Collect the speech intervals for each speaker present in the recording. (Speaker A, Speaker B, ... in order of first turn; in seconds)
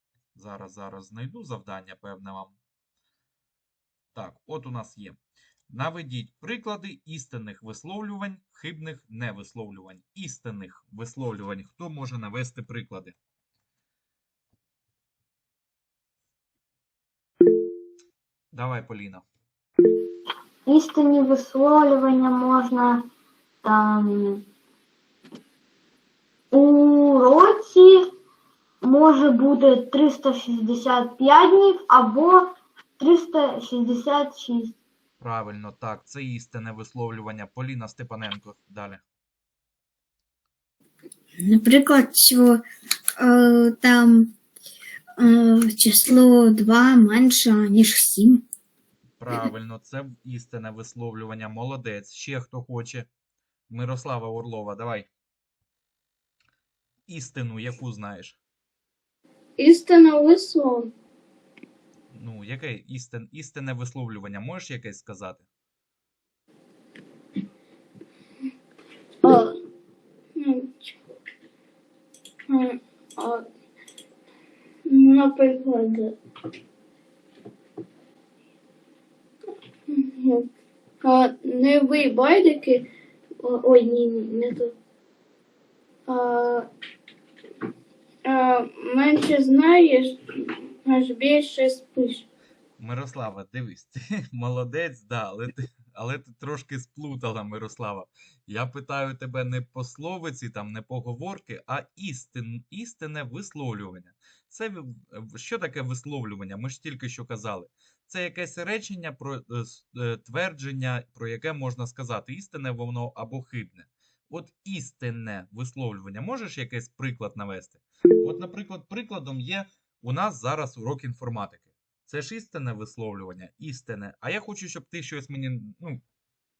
Speaker A: 0.3-2.6, 4.1-5.2, 5.7-13.2, 18.5-19.2, 35.2-39.0, 49.2-53.1, 53.7-55.1, 57.1-58.4, 62.1-65.5, 92.8-126.0
Speaker B: 20.7-23.0, 23.6-24.4, 26.5-28.0, 28.8-32.4, 33.0-34.7
Speaker C: 41.4-42.6, 43.2-44.3, 45.2-48.4
Speaker D: 59.6-60.9, 69.2-69.5, 70.4-71.0, 72.5-73.4, 74.9-76.2, 79.9-80.5, 81.0-82.8, 83.4-84.7, 86.1-86.7, 88.3-90.2, 90.8-92.2